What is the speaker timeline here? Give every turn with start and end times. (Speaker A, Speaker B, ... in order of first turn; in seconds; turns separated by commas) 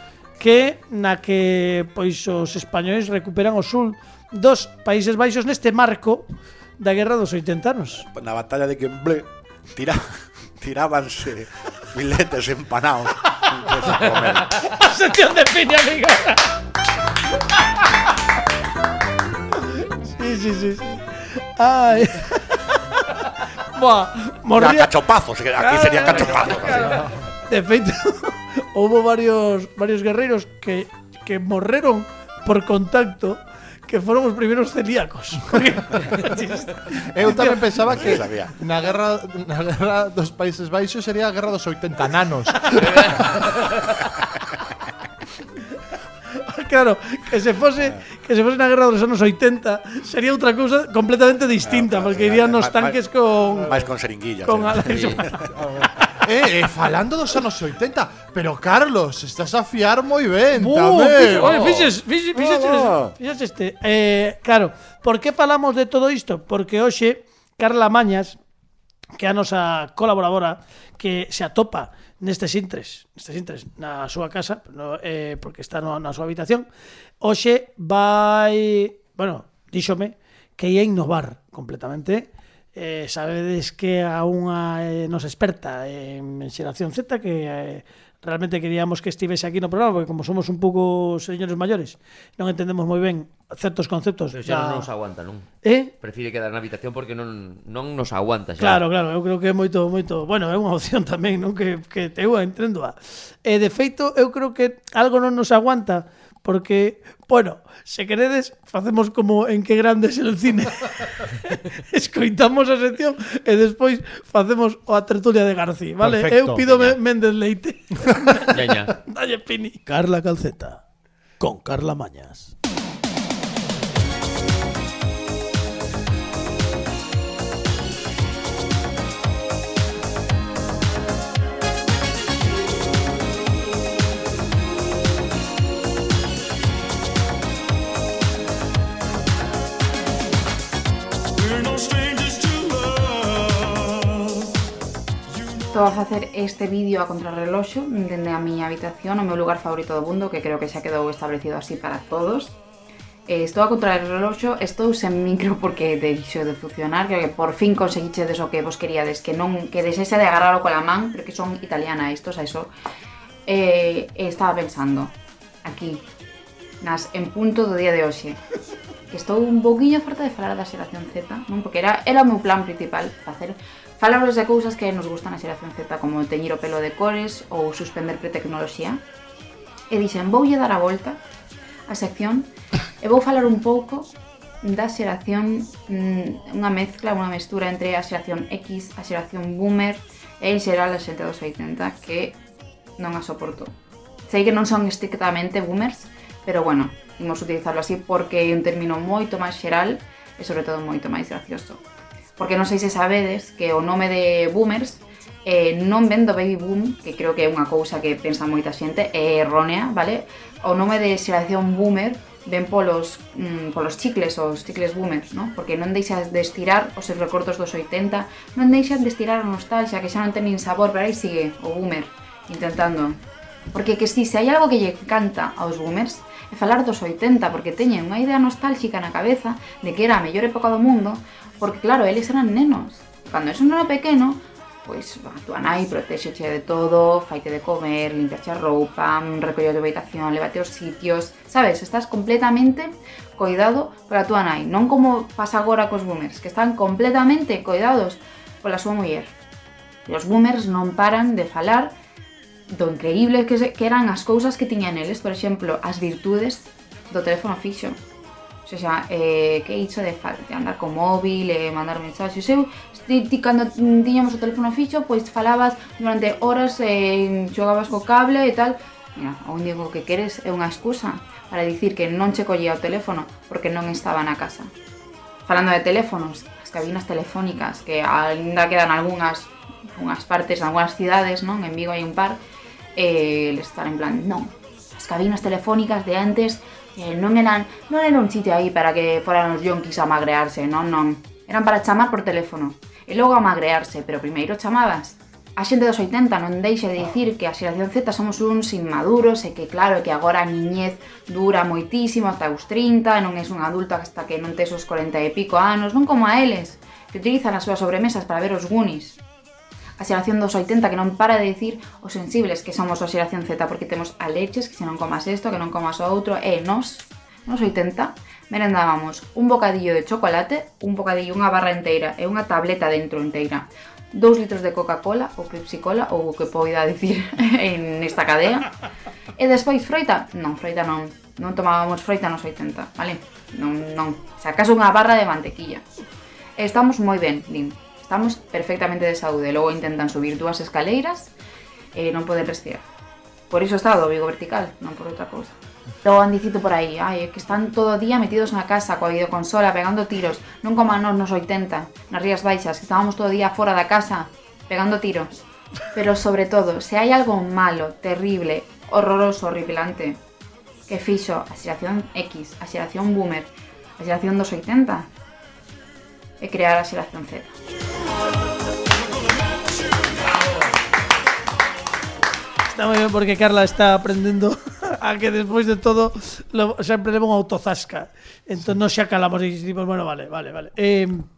Speaker A: 0.4-6.3, Speaker A: 6.8-8.1, Speaker B: 8.1-10.0, Speaker B: 10.6-14.5, Speaker A: 14.6-16.5, Speaker A: 20.1-24.9, Speaker B: 24.5-26.9, Speaker A: 25.6-37.7, Speaker C: 26.9-27.2, Speaker C: 37.1-43.0, Speaker B: 37.9-38.5, Speaker D: 42.7-44.0, Speaker A: 46.3-53.8, Speaker B: 51.6-53.0, Speaker B: 53.6-55.5, Speaker A: 54.4-55.6, Speaker D: 54.9-55.2, Speaker C: 55.6-61.5, Speaker A: 60.5-68.4, Speaker D: 61.5-61.9, Speaker B: 62.4-63.1, Speaker A: 69.2-76.7, Speaker A: 77.2-94.9, Speaker D: 94.3-95.5, Speaker A: 95.6-95.9, Speaker D: 96.0-98.8, Speaker A: 98.6-120.8, Speaker C: 116.0-116.7, Speaker D: 116.7-117.0, Speaker D: 118.5-119.0, Speaker A: 121.4-122.5, Speaker E: 145.7-152.6, Speaker E: 153.3-162.7, Speaker E: 163.5-166.0, Speaker E: 166.8-168.4, Speaker E: 169.1-179.0, Speaker E: 179.9-181.2, Speaker E: 181.9-192.4, Speaker E: 193.0-193.7, Speaker E: 194.3-201.8, Speaker E: 202.4-223.2, Speaker E: 223.7-249.3, Speaker E: 250.1-251.9, Speaker E: 252.7-258.0, Speaker E: 258.7-274.7, Speaker E: 275.5-282.4, Speaker E: 283.0-309.2, Speaker E: 310.0-328.7, Speaker E: 329.4-335.8, Speaker E: 336.6-341.3, Speaker E: 341.9-342.8, Speaker E: 343.5-355.4, Speaker E: 355.9-360.2, Speaker E: 360.9-365.1, Speaker E: 366.4-367.6, Speaker A: 372.7-381.3